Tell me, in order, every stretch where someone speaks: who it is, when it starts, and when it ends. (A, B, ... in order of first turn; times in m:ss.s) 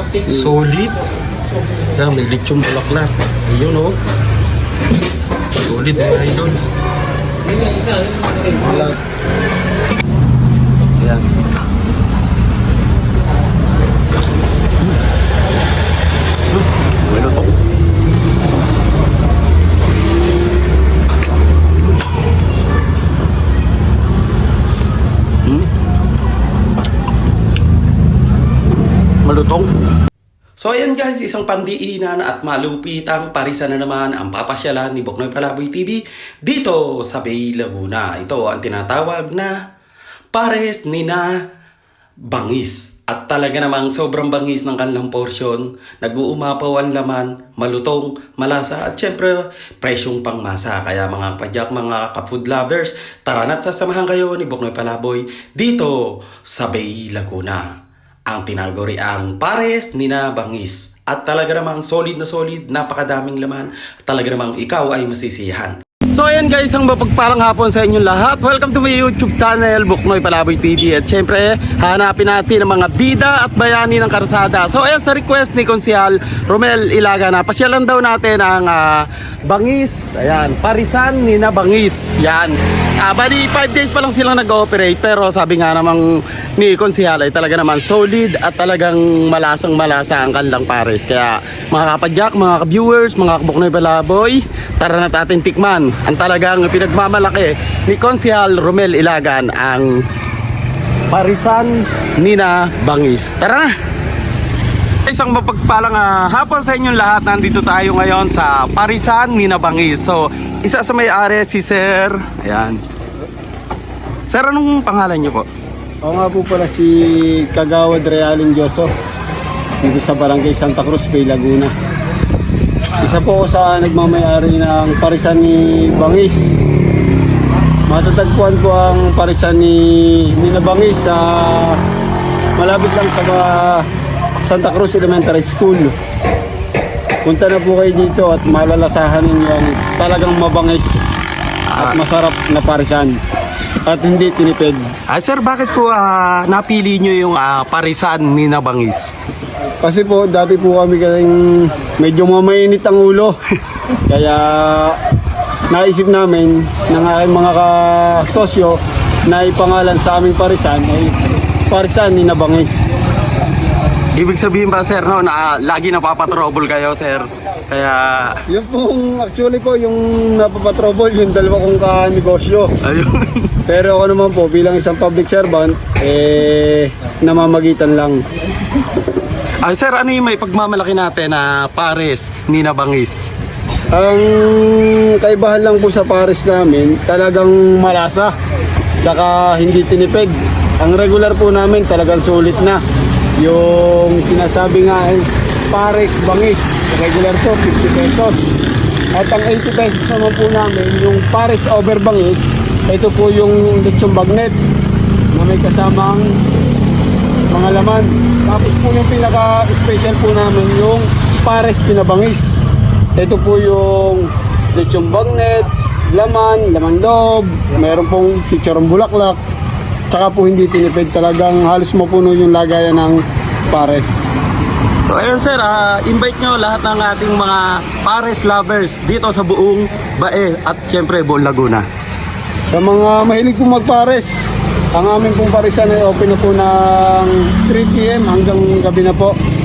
0:00.2-0:01.0 A
0:02.0-0:04.0 A
0:05.6-0:06.6 A
0:08.6-0:08.9 B
0:11.0-0:11.2 A
0:16.5-0:17.5 A
0:25.4-0:25.7 A
0:29.2-0:29.7 A
0:30.6-0:39.5 A
0:40.3-0:41.4 A
0:42.3-0:57.7 A
0:58.3-1:40.0 A
1:41.1-1:43.8 A
1:45.0-1:52.8 A
1:54.3-1:55.5 A
1:56.0-1:58.9 B
1:59.8-2:01.7 B
2:03.0-2:06.5 B
2:07.9-2:11.8 B
2:12.6-2:13.9 B
2:14.4-2:15.9 B
2:17.2-2:20.9 B
2:21.7-2:22.0 A
2:21.8-2:23.2 B
2:23.9-2:24.8 B
2:25.1-2:29.1 A
2:29.8-2:33.4 B
2:34.1-2:35.0 B
2:35.7-2:41.1 B
2:41.7-2:42.8 B
2:44.2-2:48.4 A
2:48.5-2:52.7 B
2:52.8-2:53.5 A
2:53.7-2:58.2 B
2:59.6-3:03.3 A
3:03.9-3:08.3 B
3:09.0-3:12.8 B
3:13.4-3:18.4 B
3:19.2-3:24.6 B
3:25.4-3:26.3 B
3:27.5-3:32.7 B
3:33.2-3:39.4 B
3:40.1-3:44.2 B
3:45.0-3:51.9 A
3:52.7-3:59.4 B